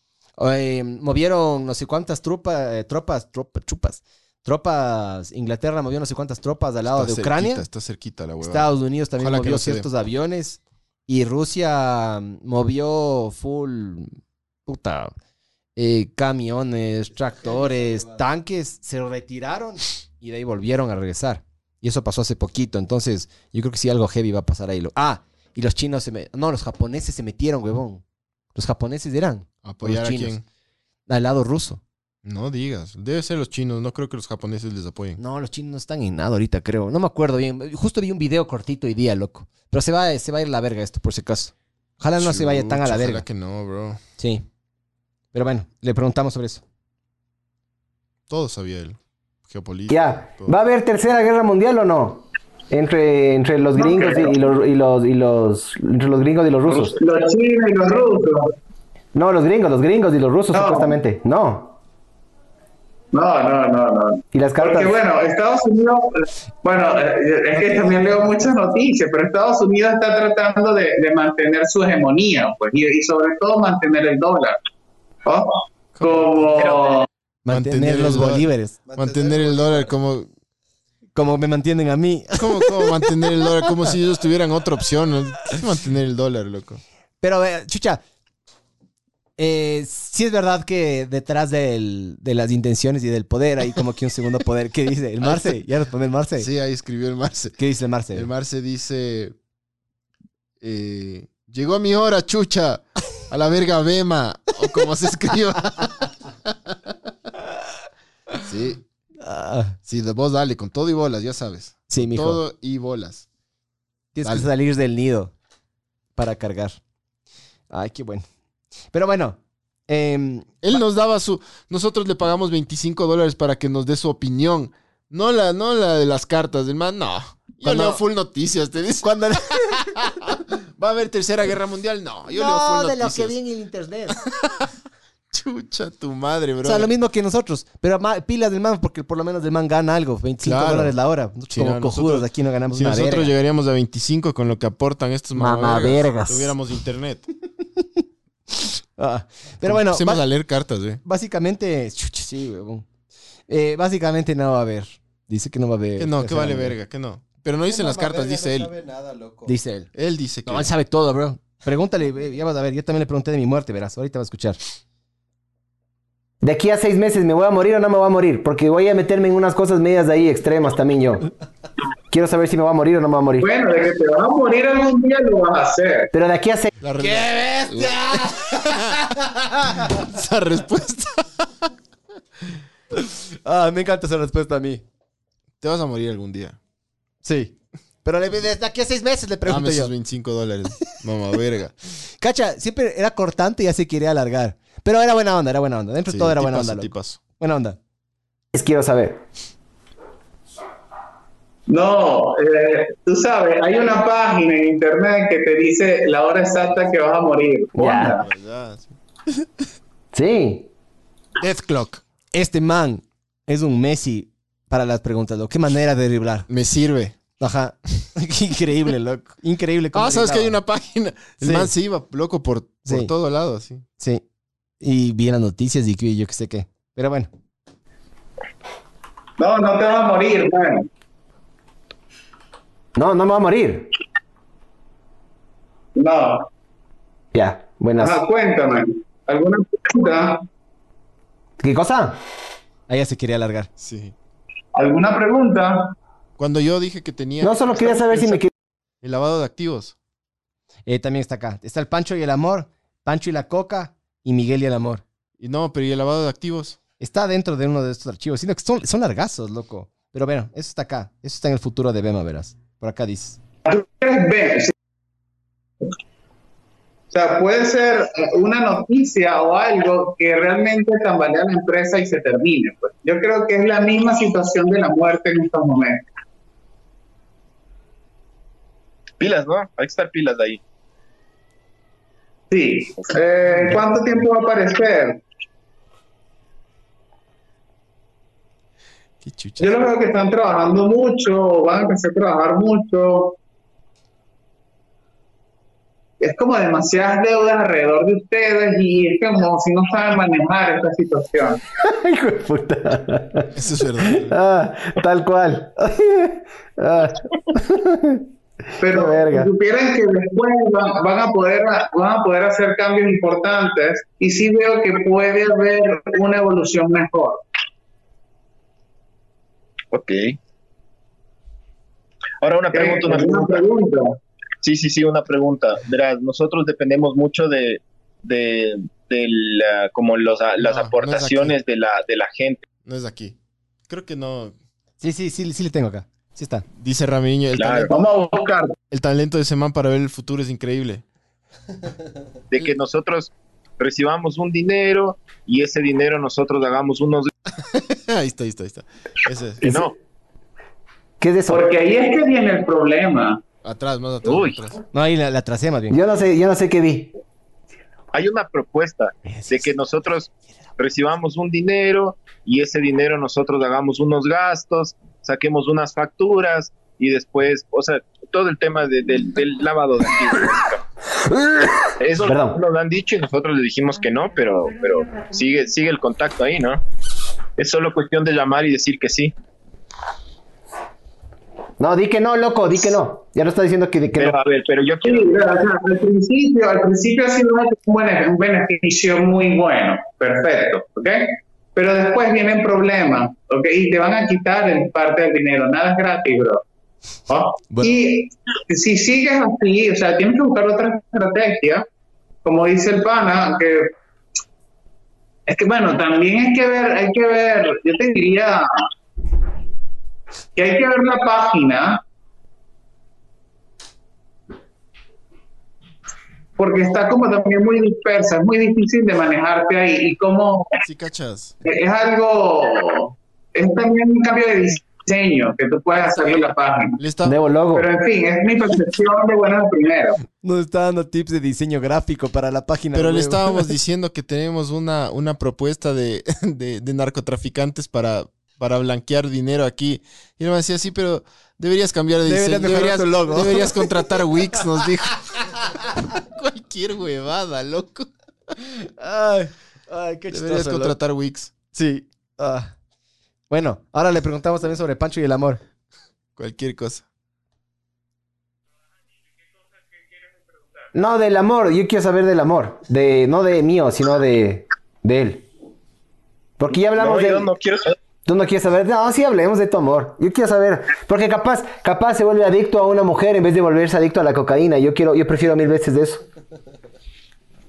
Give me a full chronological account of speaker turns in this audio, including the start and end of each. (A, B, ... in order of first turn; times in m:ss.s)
0:00.4-0:07.6 A
0:06.9-0:09.9 B
0:08.4-0:15.1 A
0:15.8-0:28.0 A
0:17.3-0:18.2 C
0:28.5-0:30.4 A
0:29.6-0:30.4 B
0:31.1-0:31.8 A
0:32.2-0:35.2 B
0:35.2-0:43.2 A
0:42.2-0:44.0 B
0:44.2-0:44.4 A
0:45.3-0:46.6 A
0:48.3-0:50.5 B
0:49.9-0:57.0 D
0:53.8-0:54.4 E
0:57.0-0:58.5 E
0:59.1-1:01.8 D
1:00.5-1:01.0 E
1:03.1-1:14.6 E
1:04.3-1:05.0 D
1:07.6-1:08.1 A
1:15.2-1:17.1 E
1:15.9-1:16.4 B
1:17.4-1:18.8 A
1:17.5-1:20.3 B
1:18.8-1:20.0 C
1:21.1-1:23.0 A
1:22.4-1:26.8 B
1:27.2-1:28.0 A
1:29.4-1:36.5 A
1:35.2-1:35.6 B
1:36.4-1:37.6 B
1:37.6-1:38.3 A
1:38.1-1:39.4 B
1:40.6-1:46.9 B
1:48.4-1:48.8 B
1:49.2-1:49.8 A
1:49.8-1:53.2 B
1:51.9-1:52.4 A
1:54.1-1:55.3 A
1:54.2-1:54.5 B
1:56.2-1:56.8 A
1:57.7-1:58.2 A
1:58.9-2:00.6 A
2:00.6-2:13.4 B
2:07.6-2:08.0 A
2:09.0-2:09.9 A
2:12.3-2:14.2 A
2:14.2-2:14.7 B
2:15.3-2:16.9 B
2:16.6-2:23.3 A
2:20.4-2:21.0 B
2:21.5-2:27.3 B
2:25.4-2:26.5 A
2:28.5-2:30.2 A
2:29.6-2:31.0 B
2:31.0-2:32.8 A
2:33.5-2:36.8 A
2:36.0-2:38.7 B
2:37.6-2:39.6 C
2:39.5-2:39.9 A
2:39.9-2:40.7 B
2:40.4-2:44.6 A
2:46.4-2:51.3 D
2:52.1-2:53.5 D
2:53.4-2:56.1 E
2:56.1-2:56.7 D
2:56.8-3:01.7 B
2:57.0-2:59.7 A
3:03.0-3:04.8 A
3:05.6-3:06.6 B
3:07.2-3:09.9 A
3:09.4-3:11.7 B
3:12.2-3:17.8 A
3:16.1-3:17.2 B
3:18.5-3:19.2 D
3:21.7-3:28.2 E
3:27.7-3:28.2 D
3:28.2-3:28.9 B
3:30.1-3:30.7 D
3:31.4-3:32.0 B
3:32.3-3:36.5 A
3:36.5-3:37.2 B
3:37.4-3:40.6 A
3:39.9-3:43.8 B
3:41.4-3:41.7 A
3:42.8-3:43.1 A
3:44.8-3:47.3 A
3:49.4-3:50.9 E
3:53.0-3:53.9 D
3:56.0-3:56.5 E
3:57.3-3:58.2 D
3:58.0-4:00.4 E
4:01.6-4:02.2 D
4:02.9-4:03.7 A
4:03.8-4:04.1 B
4:04.7-4:06.0 E
4:06.4-4:08.4 B
4:07.4-4:08.5 D
4:09.0-4:09.9 B
4:10.8-4:15.0 A
4:15.4-4:16.8 B
4:17.0-4:23.4 A
4:23.6-4:24.7 E
4:27.1-4:36.0 E
4:39.2-4:40.6 F
4:42.5-4:45.2 E
4:49.2-4:49.9 B
4:49.6-4:53.4 E
4:56.2-5:01.6 E
5:01.8-5:08.3 D
5:03.5-5:04.3 B
5:08.8-5:17.4 E
5:08.8-5:09.5 D
5:19.9-5:20.4 F
5:22.4-5:23.6 F
5:22.7-5:24.2 E
5:24.6-5:32.6 F
5:30.6-5:31.5 B
5:32.8-5:33.4 B
5:33.9-5:34.6 B
5:35.0-5:36.6 A
5:36.8-5:37.9 B
5:37.6-5:37.9 F
5:37.9-5:38.7 E
5:38.9-5:41.0 B
5:42.5-5:47.3 F
5:47.6-5:49.7 B
5:49.6-5:49.9 F
5:51.2-5:51.7 D
5:51.5-5:53.4 E
5:53.6-5:54.8 B
5:54.2-5:54.6 F
5:54.9-5:56.0 A
5:55.9-5:57.1 D
5:58.1-6:10.8 F
5:59.2-5:59.8 A
6:11.3-6:12.6 D
6:12.0-6:16.8 F
6:17.6-6:19.3 F
6:21.8-6:24.4 D
6:24.2-6:25.6 F
6:25.0-6:36.6 E
6:37.3-6:41.8 E
6:42.4-6:43.9 E
6:45.5-6:48.9 E
6:50.6-6:52.0 E
6:56.6-7:00.8 E
7:00.8-7:01.5 B
7:01.6-7:07.0 E
7:07.0-7:07.4 B
7:07.2-7:07.9 D
7:07.7-7:10.2 E
7:10.4-7:13.6 A
7:12.9-7:28.1 B
7:22.2-7:23.9 A
7:28.6-7:31.0 A
7:30.3-7:31.5 B
7:31.7-7:32.7 A
7:33.5-7:35.6 A
7:36.4-7:37.0 B
7:39.9-7:40.9 E
7:40.9-7:45.5 D
7:46.6-7:47.5 D
7:46.7-7:48.0 F
7:48.2-7:56.2 D